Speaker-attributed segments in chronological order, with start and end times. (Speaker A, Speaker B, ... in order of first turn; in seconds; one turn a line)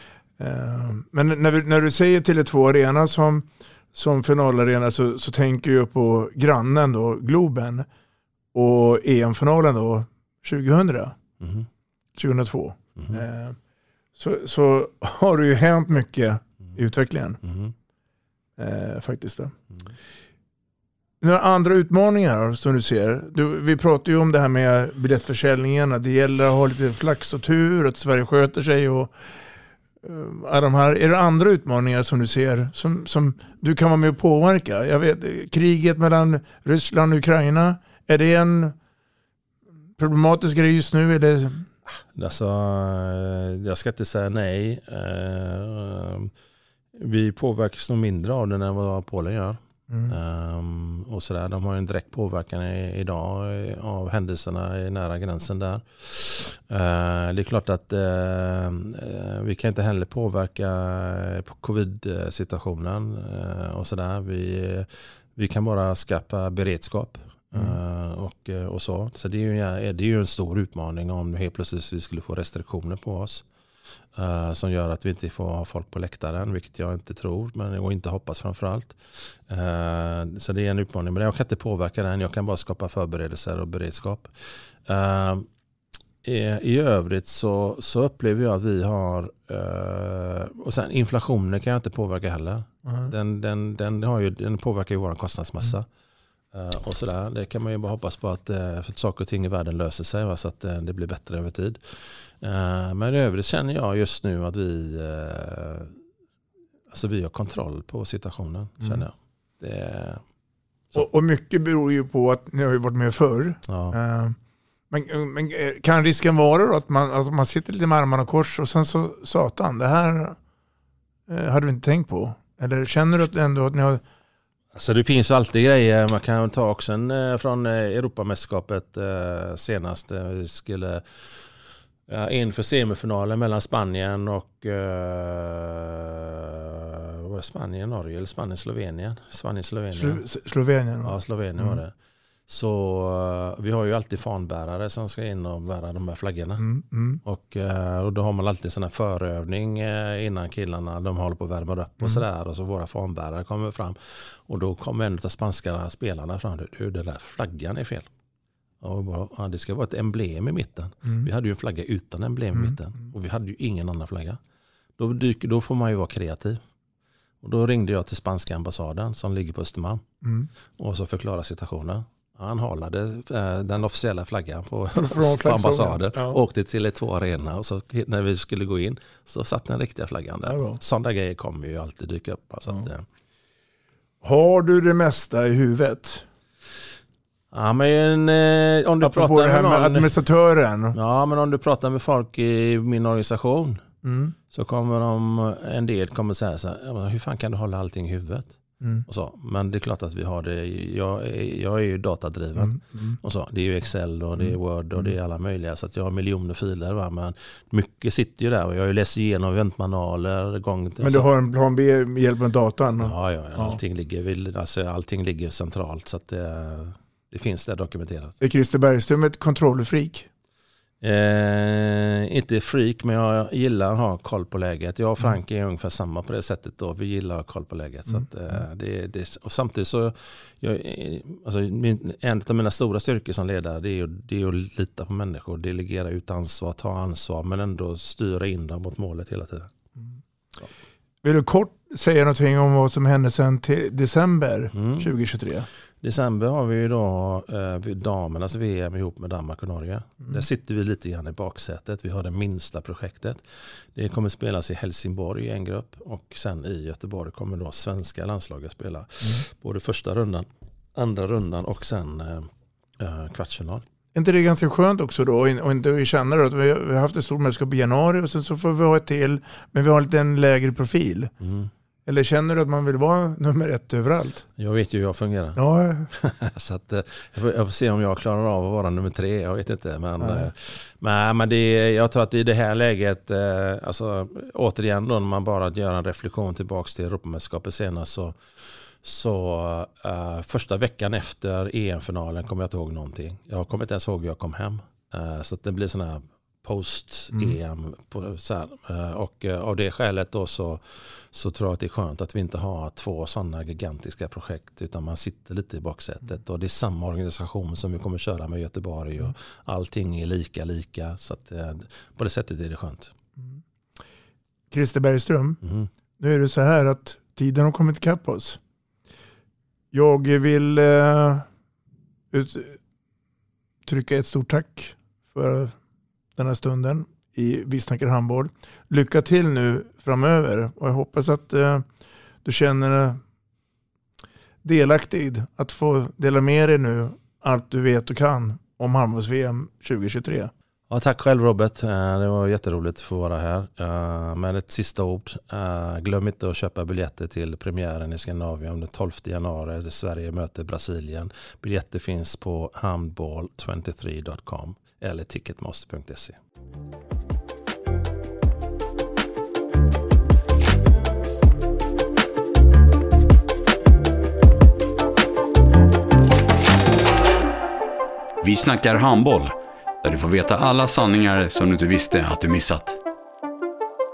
Speaker A: 0.4-7.9
Speaker A: 8.5-11.2
Speaker B: 11.4-11.7
Speaker A: 12.2-13.6
Speaker A: 14.2-17.4
Speaker B: 17.4-17.7
Speaker A: 18.6-19.5
Speaker A: 21.2-29.4
Speaker A: 30.0-38.8
Speaker A: 40.0-41.7
Speaker B: 42.1-46.3
Speaker B: 46.9-73.5
Speaker A: 49.9-50.1
Speaker B: 74.1-85.5
Speaker B: 86.2-95.9
Speaker A: 92.9-93.1
Speaker B: 96.5-106.0
Speaker B: 106.9-110.2
Speaker A: 111.0-114.4
Speaker B: 113.7-114.0
Speaker A: 114.9-120.4
Speaker A: 121.3-124.0
Speaker B: 124.7-131.4
Speaker B: 132.1-140.2
Speaker A: 139.9-141.8
Speaker B: 141.0-141.9
Speaker B: 142.5-146.7
Speaker A: 146.6-147.2
Speaker B: 147.2-158.1
Speaker B: 158.8-164.4
Speaker B: 165.0-166.6
Speaker B: 167.4-170.0
Speaker A: 170.2-170.5
Speaker B: 170.8-183.1
Speaker A: 174.9-176.4
Speaker A: 180.4-180.8
Speaker A: 184.2-186.2
Speaker B: 187.5-190.1
Speaker A: 189.0-190.9
Speaker B: 190.9-193.8
Speaker A: 194.0-194.4
Speaker B: 194.5-198.5
Speaker A: 198.8-199.1
Speaker B: 199.1-211.3
Speaker A: 202.6-203.2
Speaker A: 211.0-213.8
Speaker B: 213.0-218.4
Speaker A: 218.4-220.3
Speaker B: 221.0-239.7
Speaker A: 241.2-245.7
Speaker B: 244.8-245.1
Speaker B: 246.0-253.4
Speaker B: 253.9-263.9
Speaker A: 264.1-271.3
Speaker B: 271.4-271.7
Speaker A: 272.1-274.4
Speaker B: 274.6-275.6
Speaker A: 275.6-276.1
Speaker B: 276.1-288.4
Speaker A: 280.2-280.5
Speaker B: 289.0-313.1
Speaker A: 314.7-315.6
Speaker B: 315.6-315.9
Speaker A: 316.2-318.6
Speaker A: 319.9-321.5
Speaker A: 322.3-322.8
Speaker A: 323.9-325.8
Speaker A: 326.4-331.9
Speaker A: 332.4-333.2
Speaker A: 334.6-340.5
Speaker B: 340.9-356.4
Speaker C: 368.4-373.0